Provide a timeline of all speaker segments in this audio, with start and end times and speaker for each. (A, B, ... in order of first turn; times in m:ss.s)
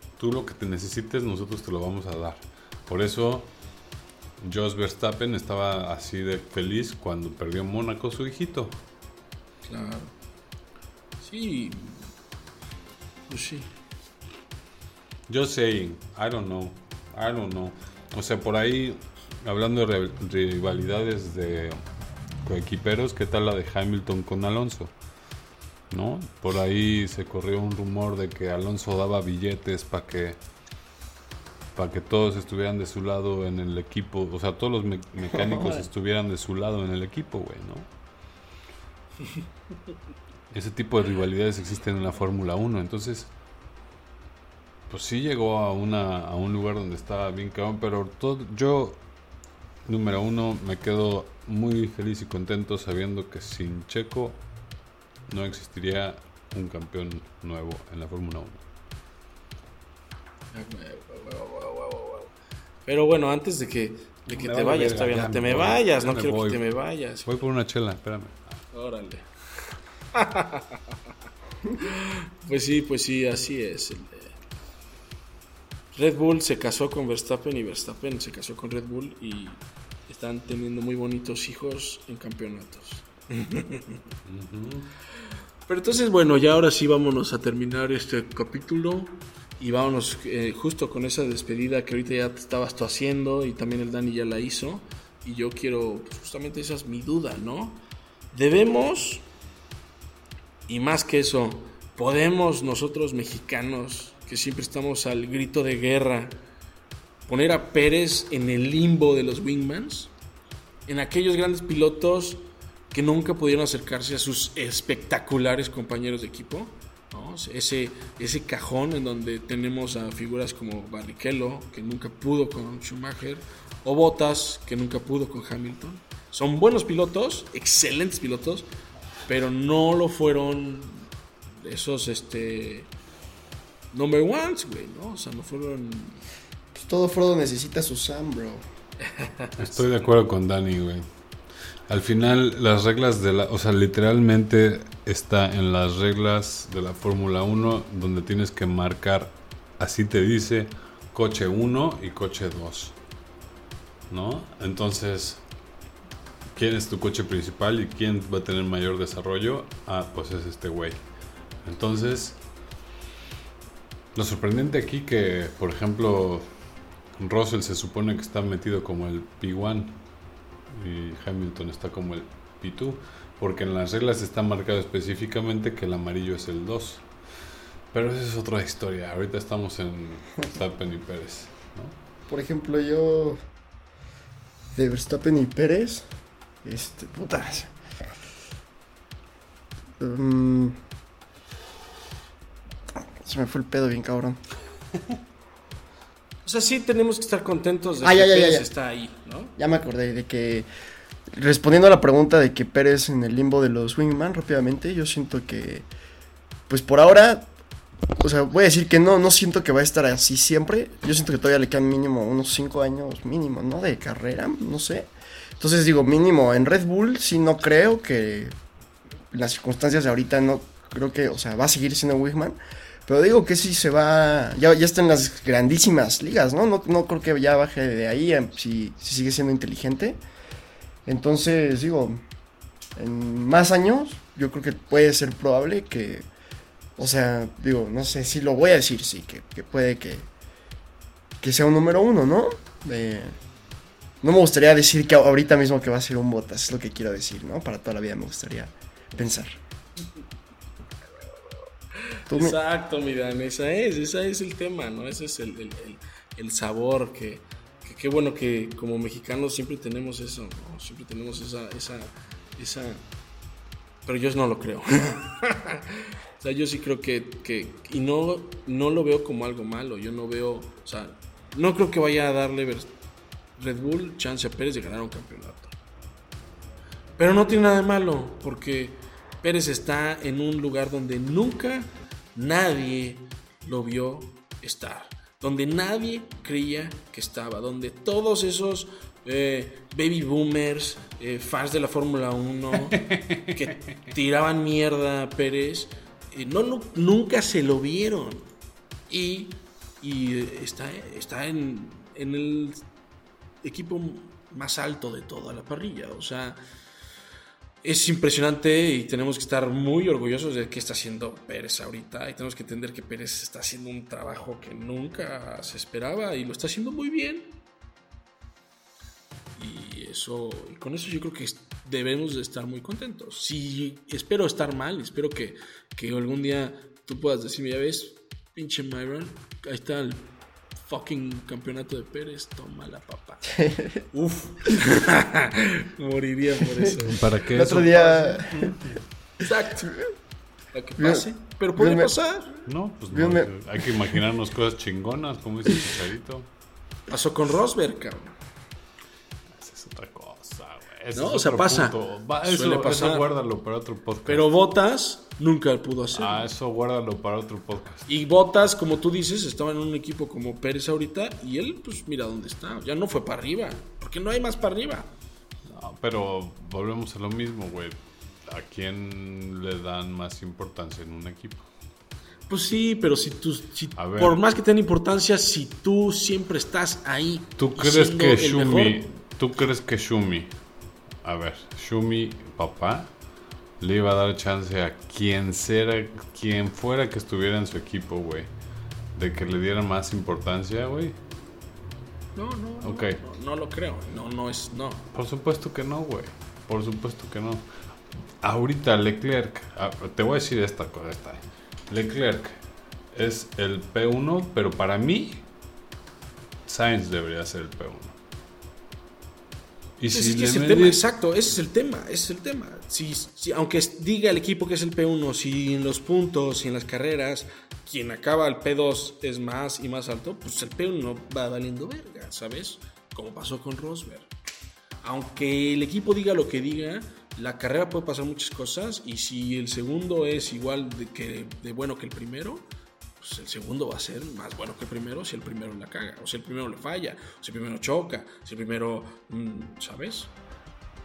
0:00.2-0:03.5 A
0:04.4-0:08.8 A
0:09.7-0:10.1 B
0:11.2-0:12.1 B
0:13.3-0:13.7 B
0:15.3-0:21.8 A
0:22.4-0:24.9 A
0:25.9-0:30.4 A
0:31.7-0:37.9 A
0:35.4-0:35.8 C
0:40.5-0:43.3 A
0:44.9-0:49.0 A
0:49.8-0:54.4 A
0:55.3-0:58.6 A
1:00.5-1:02.3 B
1:02.8-1:07.3 B
1:04.3-1:06.6 A
1:07.2-1:08.6 A
1:08.7-1:09.3 B
1:10.1-1:10.8 B
1:11.8-1:14.4 B
1:15.9-1:24.0 B
1:24.2-1:24.9 A
1:25.7-1:39.3 B
1:40.7-1:46.4 B
1:47.3-1:50.1 B
1:50.8-2:08.7 B
2:09.3-2:12.9 B
2:13.9-2:16.2 B
2:16.7-2:18.6 C
2:19.0-2:20.0 B
2:19.6-2:21.1 A
2:21.9-2:33.0 A
2:34.1-2:35.4 A
2:36.5-2:41.0 A
2:41.6-2:42.4 A
2:44.1-2:46.5 A
2:47.2-2:50.0 A
2:50.7-2:57.1 A
2:57.9-3:02.0 A
3:02.3-3:03.4 C
3:04.7-3:06.1 C
3:06.6-3:07.7 C
3:10.0-3:10.8 C
3:13.2-3:14.4 C
3:16.4-3:19.5 B
3:18.0-3:18.7 C
3:19.6-3:20.7 C
3:21.3-3:25.9 C
3:26.7-3:27.5 C
3:28.2-3:38.5 C
3:39.3-3:50.2 C
3:51.0-3:52.2 C
3:53.0-3:56.3 C
3:57.0-4:00.3 C
4:01.4-4:03.4 C
4:04.2-4:09.6 C
4:11.0-4:11.7 B
4:12.3-4:23.0 B
4:12.3-4:12.6 C
4:24.0-4:32.9 B
4:33.6-4:35.7 B
4:37.2-4:53.0 B
4:52.9-4:53.6 A
4:53.5-4:58.5 B
4:59.1-5:02.8 B
5:03.6-5:06.6 B
5:07.8-5:17.6 B
5:19.6-5:30.3 B
5:30.8-5:33.5 B
5:33.5-5:34.0 C
5:34.1-5:38.8 B
5:37.0-5:38.0 A
5:37.4-5:39.0 C
5:39.4-5:40.0 B
5:39.8-5:40.1 C
5:40.7-5:42.6 B
5:41.0-5:42.1 C
5:42.6-5:46.5 A
5:43.1-5:43.9 C
5:47.1-5:48.3 B
5:49.5-5:54.5 A
5:51.1-5:53.2 B
5:54.2-5:56.5 B
5:56.1-5:58.1 A
5:58.1-6:05.1 B
6:05.6-6:11.7 A
6:12.5-6:19.1 B
6:14.0-6:14.4 A
6:17.6-6:20.5 A
6:21.2-6:23.1 A
6:23.8-6:28.5 A
6:29.1-6:31.2 A
6:32.4-6:35.1 B
6:32.8-6:33.2 A
6:35.1-6:37.7 A
6:38.4-6:42.6 A
6:43.1-6:45.4 A
6:46.7-6:48.2 A
6:50.0-6:51.0 A
6:50.1-7:04.3 B
7:05.0-7:20.3 B